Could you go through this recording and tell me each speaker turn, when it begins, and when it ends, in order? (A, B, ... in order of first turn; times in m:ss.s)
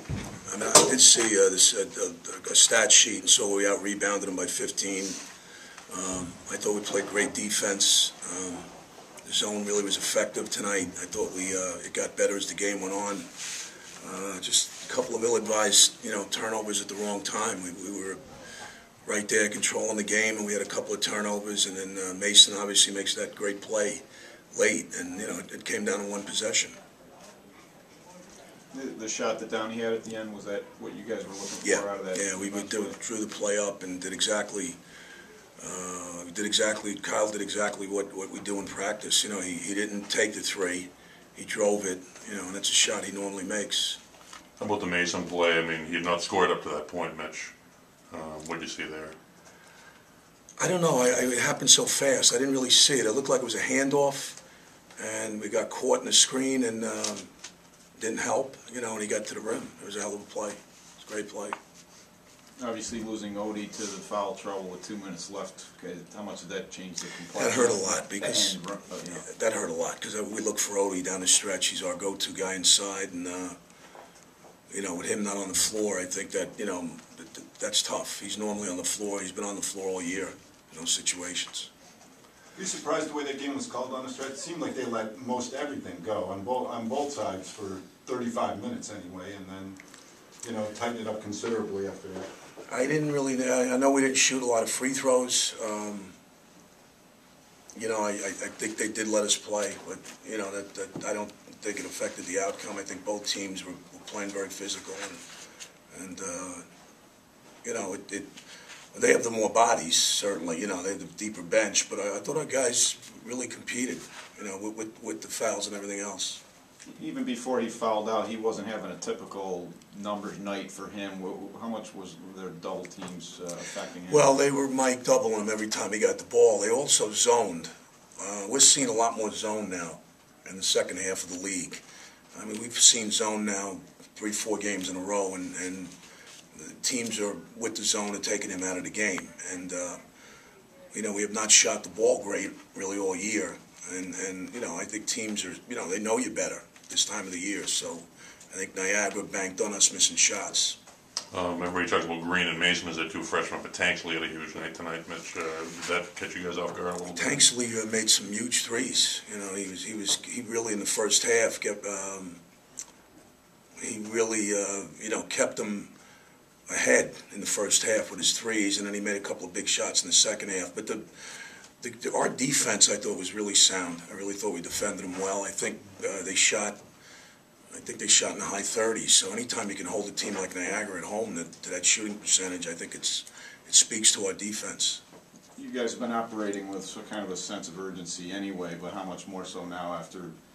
0:00.5-0:05.2 A
0:05.9-0:08.7 A
0:09.2-0:13.3 A
0:14.0-0:18.2 A
0:19.0-0:26.8 A
0:28.7-0:33.0 B
0:31.6-0:34.8 A
0:35.6-0:44.0 A
0:44.6-0:47.6 C
0:48.1-0:49.2 C
0:50.6-0:54.4 A
0:55.0-0:57.3 A
0:58.0-1:01.6 A
1:02.6-1:09.3 B
1:07.3-1:08.6 A
1:09.2-1:13.6 A
1:14.7-1:21.7 A
1:22.6-1:29.8 D
1:30.4-1:32.3 D
1:32.7-1:36.2 A
1:37.8-1:45.2 A
1:45.9-1:46.7 A
1:47.6-1:48.3 A
1:48.9-1:56.4 A
1:56.8-2:04.3 B
2:04.1-2:11.8 A
2:12.3-2:15.9 A
2:16.6-2:20.0 A
2:20.9-2:30.8 A
2:31.3-2:37.5 C
2:37.1-2:42.4 A
2:43.8-2:45.9 A
2:46.7-2:51.0 A
2:51.8-2:56.8 A
2:57.7-3:05.0 A
3:05.6-3:10.4 B